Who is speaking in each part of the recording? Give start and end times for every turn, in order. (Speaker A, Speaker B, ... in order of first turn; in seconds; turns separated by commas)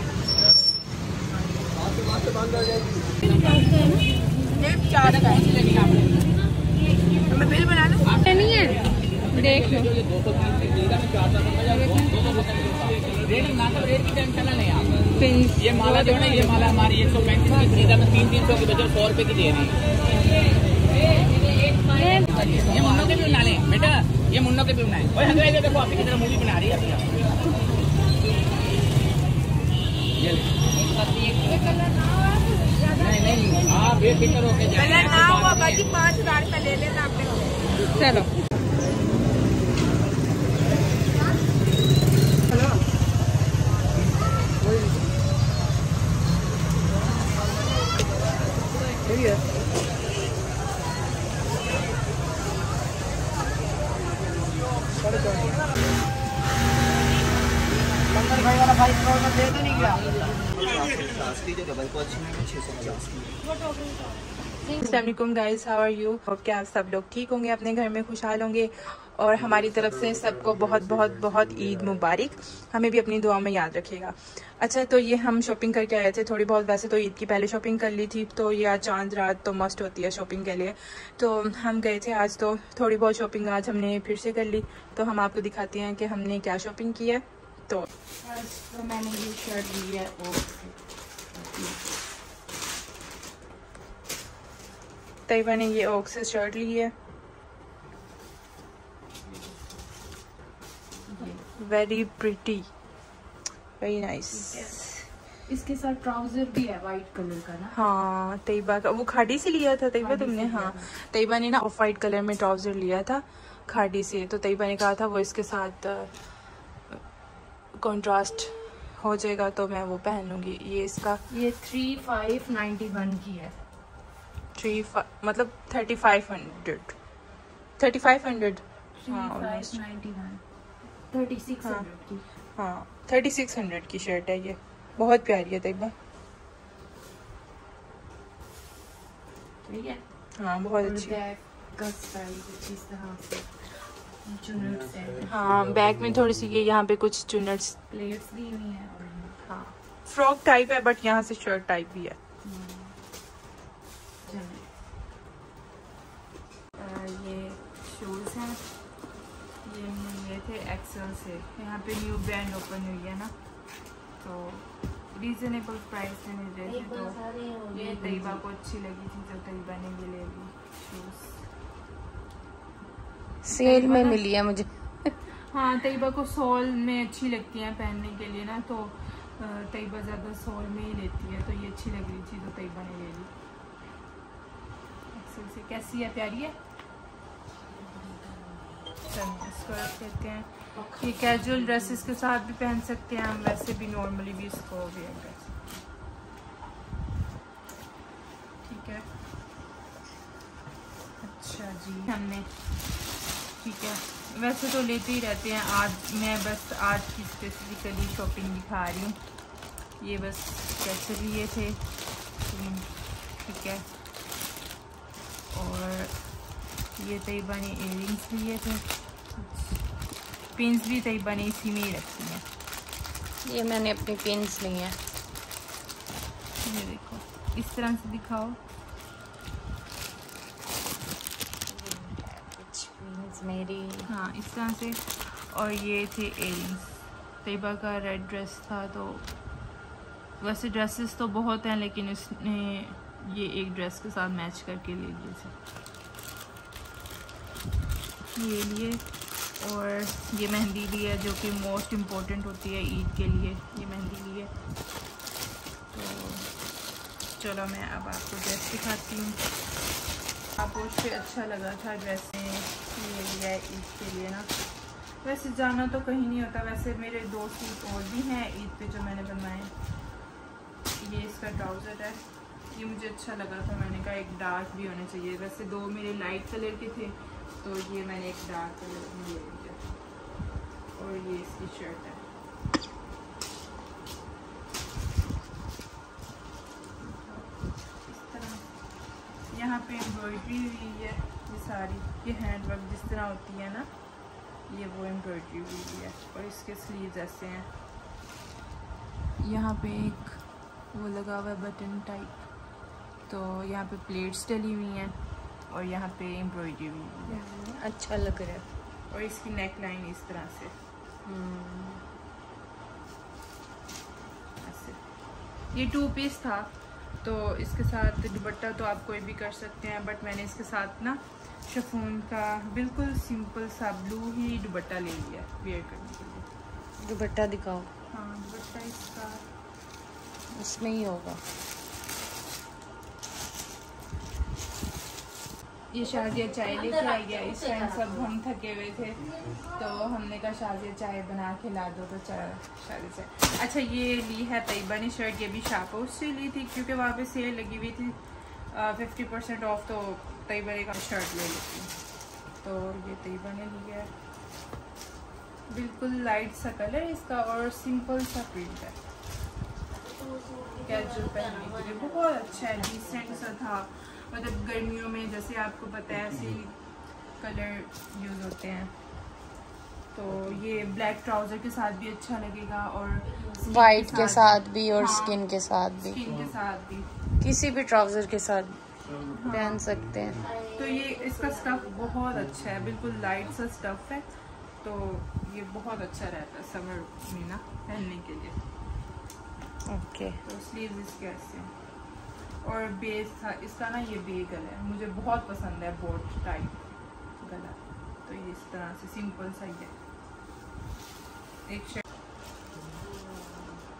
Speaker A: 3.3-4.0, Speaker B: 4.7-5.5, Speaker B: 7.3-8.5, Speaker A: 8.3-8.8, Speaker B: 9.3-10.0, Speaker C: 13.5-14.7, Speaker B: 15.2-17.8, Speaker C: 17.7-19.5, Speaker A: 21.9-22.5, Speaker C: 23.1-27.0, Speaker C: 34.0-34.4, Speaker B: 34.6-37.2, Speaker B: 37.9-38.3, Speaker B: 64.7-87.9, Speaker A: 88.2-90.8, Speaker A: 91.3-91.8, Speaker B: 95.3-96.9, Speaker A: 99.2-99.6, Speaker A: 101.0-101.4, Speaker B: 101.6-102.7, Speaker B: 103.8-105.0, Speaker A: 104.3-104.8, Speaker A: 105.5-107.7, Speaker B: 107.7-116.1, Speaker A: 110.0-110.9, Speaker B: 117.8-121.2, Speaker A: 121.3-123.6, Speaker B: 124.5-126.9, Speaker B: 127.8-129.8, Speaker A: 129.0-130.4, Speaker A: 131.1-132.2, Speaker B: 131.6-131.9, Speaker B: 132.6-135.9, Speaker A: 139.6-140.0, Speaker B: 140.4-141.2, Speaker A: 140.8-145.3, Speaker B: 145.2-147.8, Speaker A: 147.9-149.4, Speaker B: 149.4-152.2, Speaker A: 152.4-152.9, Speaker A: 154.2-154.7, Speaker B: 156.8-158.6, Speaker B: 159.6-163.3, Speaker B: 164.2-167.2, Speaker A: 166.6-168.4, Speaker B: 167.7-171.4, Speaker A: 173.4-174.7, Speaker B: 173.5-174.2, Speaker B: 175.5-183.3, Speaker B: 185.1-186.6, Speaker A: 187.7-189.0, Speaker B: 189.1-195.6, Speaker A: 190.7-192.1, Speaker B: 198.6-199.0, Speaker B: 201.2-202.5, Speaker B: 203.6-209.2, Speaker B: 210.0-211.8, Speaker B: 212.5-212.9, Speaker B: 213.4-213.8, Speaker B: 215.5-216.1, Speaker B: 217.0-218.8, Speaker B: 219.3-219.8, Speaker B: 220.5-222.4, Speaker A: 223.4-225.0, Speaker B: 226.6-228.6, Speaker A: 231.7-234.1, Speaker B: 234.1-239.3, Speaker B: 240.4-245.5, Speaker B: 248.3-249.0, Speaker B: 249.6-254.5, Speaker B: 255.9-256.5, Speaker B: 257.4-259.4, Speaker B: 260.6-264.5, Speaker B: 265.2-269.7, Speaker B: 271.0-279.8, Speaker B: 280.9-282.2, Speaker B: 287.0-287.5, Speaker B: 288.0-288.6, Speaker B: 289.5-293.9, Speaker B: 294.7-297.7, Speaker B: 299.4-300.4, Speaker B: 300.9-302.4, Speaker B: 303.3-305.2, Speaker B: 305.7-307.4, Speaker A: 307.3-308.6, Speaker B: 309.1-310.7, Speaker A: 311.2-312.0, Speaker B: 314.6-315.0, Speaker B: 315.7-316.7, Speaker B: 317.2-326.4, Speaker A: 327.0-327.9, Speaker B: 328.1-329.4, Speaker A: 330.5-331.4, Speaker B: 335.9-348.2, Speaker B: 348.7-351.9, Speaker B: 352.6-354.1, Speaker B: 355.7-359.0, Speaker A: 360.0-363.4, Speaker B: 360.9-366.7, Speaker B: 367.4-368.9, Speaker B: 370.1-375.4, Speaker A: 373.5-376.3, Speaker B: 376.0-377.1, Speaker A: 377.4-378.8, Speaker B: 379.3-379.9, Speaker A: 379.4-382.2, Speaker B: 380.7-384.2, Speaker B: 384.8-388.6, Speaker A: 389.9-390.4, Speaker B: 390.4-391.7, Speaker B: 392.6-396.8, Speaker B: 397.4-399.9, Speaker B: 401.6-402.0, Speaker A: 402.9-403.8